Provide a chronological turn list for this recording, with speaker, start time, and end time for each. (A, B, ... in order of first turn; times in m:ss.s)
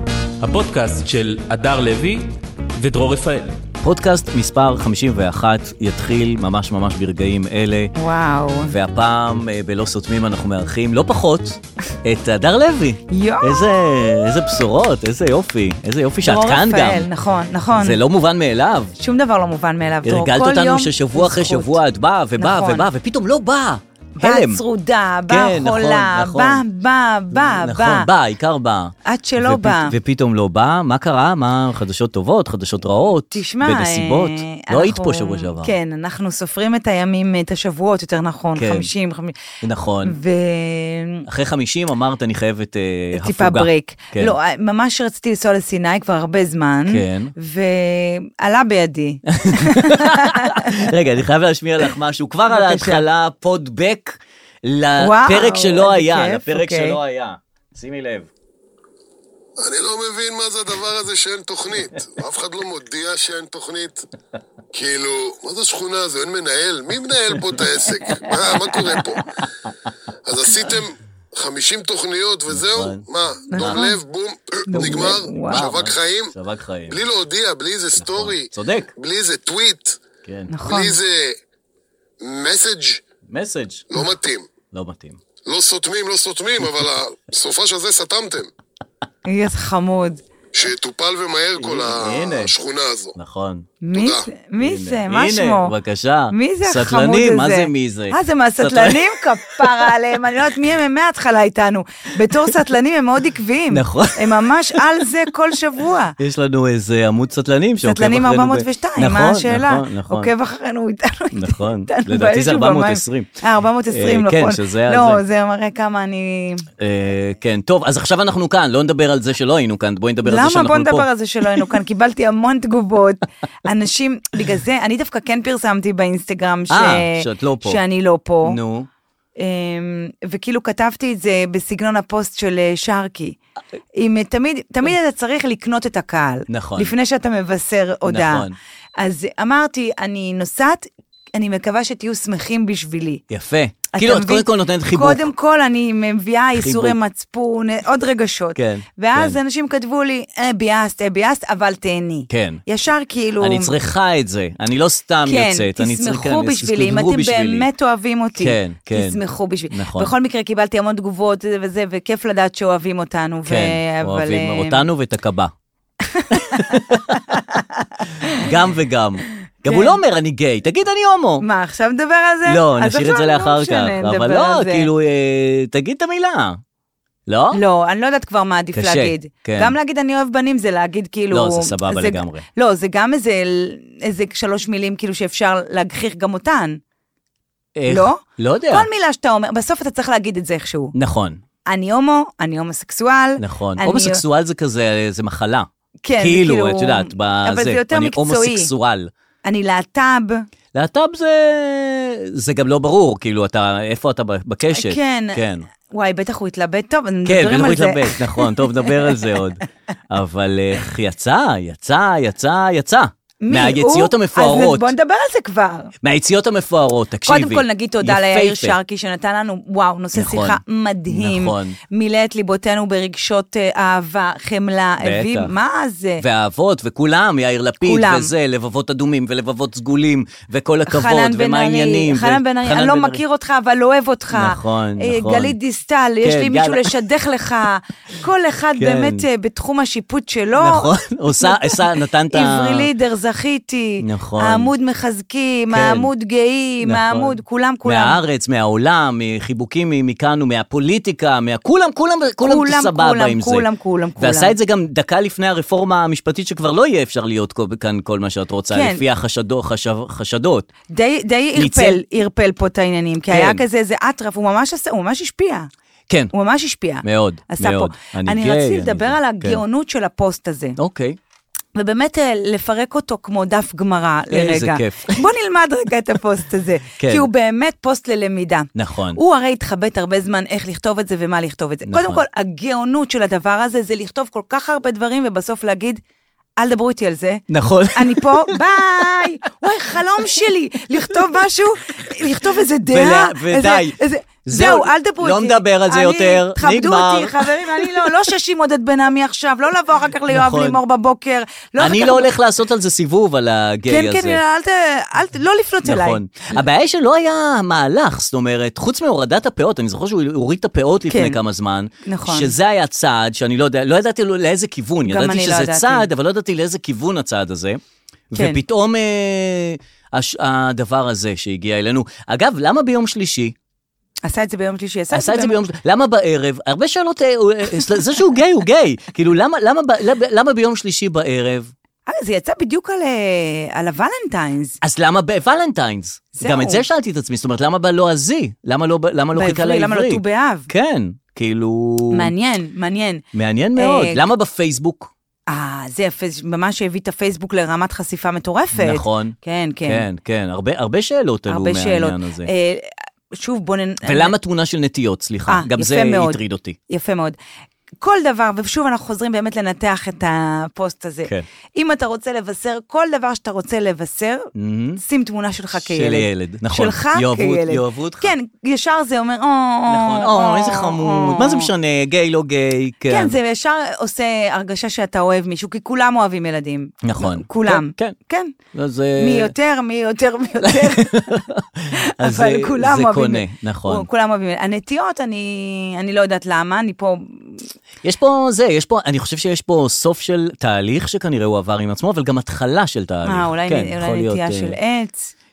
0:00.4-0:03.6 A
0:03.8-0:07.9 B
0:08.0-0:08.7 C
0:08.7-0:17.1 B
0:13.1-0:14.3 C
0:16.2-0:18.0 C
0:17.7-0:18.9 B
0:19.0-0:21.8 C
0:20.0-0:24.6 B
0:22.4-0:22.9 C
0:24.2-0:28.1 C
0:25.3-0:26.6 B
0:27.3-0:35.7 B
0:29.0-0:30.0 C
0:33.3-0:39.4 C
0:38.6-0:38.9 B
0:39.6-0:40.2 B
0:40.0-0:41.2 C
0:41.3-0:44.3 B
0:43.1-0:50.9 C
0:46.9-0:47.3 B
0:49.3-0:58.3 B
0:52.5-0:53.0 C
0:55.0-0:57.0 C
0:59.6-1:04.1 D
1:04.7-1:09.4 D
1:08.0-1:09.7 B
1:10.2-1:16.3 D
1:12.5-1:13.9 B
1:13.5-1:14.0 C
1:14.7-1:15.7 C
1:14.8-1:17.0 B
1:16.9-1:20.0 D
1:18.0-1:18.9 B
1:20.2-1:20.5 B
1:20.5-1:21.0 C
1:20.6-1:21.4 D
1:22.2-1:23.0 D
1:23.3-1:23.9 B
1:23.9-1:24.5 D
1:24.7-1:25.2 B
1:25.4-1:28.5 D
1:29.2-1:30.2 C
1:30.5-1:33.1 D
1:31.6-1:32.5 B
1:33.1-1:33.7 B
1:33.8-1:35.7 C
1:33.9-1:34.2 D
1:34.6-1:39.9 B
1:36.3-1:46.2 C
1:43.7-1:44.8 B
1:46.2-1:50.3 B
1:47.8-1:56.7 C
1:51.3-1:53.4 B
1:53.9-1:55.2 B
1:56.8-2:01.1 B
2:00.2-2:08.6 C
2:06.7-2:07.8 B
2:08.4-2:08.9 B
2:09.4-2:13.4 C
2:13.9-2:18.5 C
2:16.5-2:16.9 B
2:18.0-2:18.6 B
2:19.0-2:23.2 C
2:23.3-2:25.3 B
2:23.9-2:33.7 C
2:26.5-2:27.0 B
2:28.5-2:29.4 B
2:32.3-2:32.6 B
2:33.4-2:37.7 B
2:35.2-2:44.8 C
2:38.4-2:39.2 B
2:39.7-2:40.1 B
2:43.5-2:45.5 B
2:46.1-2:48.5 C
2:46.3-2:47.3 B
2:48.3-2:51.4 B
2:49.7-2:50.0 C
2:51.4-2:54.9 C
2:52.5-2:56.6 B
2:57.3-2:57.6 B
2:57.5-3:06.8 C
2:58.8-2:59.8 B
3:01.3-3:02.5 B
3:07.8-3:08.9 B
3:07.9-3:10.9 C
3:10.9-3:11.4 B
3:11.7-3:14.2 C
3:13.4-3:19.1 B
3:16.0-3:18.7 C
3:19.4-3:20.5 C
3:20.7-3:25.7 B
3:24.7-3:29.2 C
3:27.2-3:34.9 B
3:33.4-3:35.9 C
3:36.0-3:38.8 B
3:37.2-3:46.2 C
3:40.1-3:41.8 B
3:45.0-3:45.5 B
3:46.2-3:53.2 B
3:47.8-3:48.3 C
3:50.9-4:01.8 C
3:54.3-3:55.6 B
3:56.2-3:56.9 B
3:58.8-3:59.3 B
4:00.6-4:02.9 B
4:02.3-4:08.2 C
4:04.0-4:04.7 B
4:05.7-4:06.1 B
4:06.8-4:20.7 B
4:12.4-4:14.5 C
4:18.7-4:19.0 C
4:20.9-4:25.7 C
4:21.6-4:22.0 B
4:23.3-4:23.6 B
4:26.3-4:30.8 C
4:27.0-4:29.6 B
4:30.8-4:31.2 B
4:31.8-4:46.0 C
4:34.3-4:35.3 B
4:37.0-4:37.3 B
4:38.8-4:39.2 B
4:41.9-4:42.2 B
4:46.6-5:02.3 C
4:47.5-4:49.3 B
4:52.9-4:58.1 B
5:00.3-5:00.8 B
5:01.8-5:04.4 B
5:03.9-5:06.2 C
5:05.8-5:23.6 B
5:11.1-5:11.4 C
5:12.1-5:12.5 C
5:15.1-5:16.1 C
5:18.3-5:18.6 C
5:24.2-5:25.6 C
5:25.1-5:31.7 B
5:32.1-5:34.8 C
5:34.8-5:42.3 B
5:36.4-5:36.8 C
5:39.3-5:40.7 C
5:42.1-5:43.2 C
5:43.3-5:45.1 B
5:43.8-5:44.2 C
5:45.5-5:50.0 C
5:48.7-5:52.5 B
5:51.5-5:54.4 C
5:54.0-5:56.8 B
5:55.5-5:57.4 C
5:58.0-6:04.5 C
6:04.6-6:05.0 B
6:05.0-6:11.7 C
6:05.7-6:08.3 B
6:09.9-6:13.4 B
6:13.1-6:18.5 C
6:17.0-6:18.2 B
6:18.7-6:19.5 B
6:19.2-6:21.1 C
6:20.6-6:24.1 B
6:21.9-6:27.7 C
6:28.0-6:34.8 B
6:33.2-6:35.3 C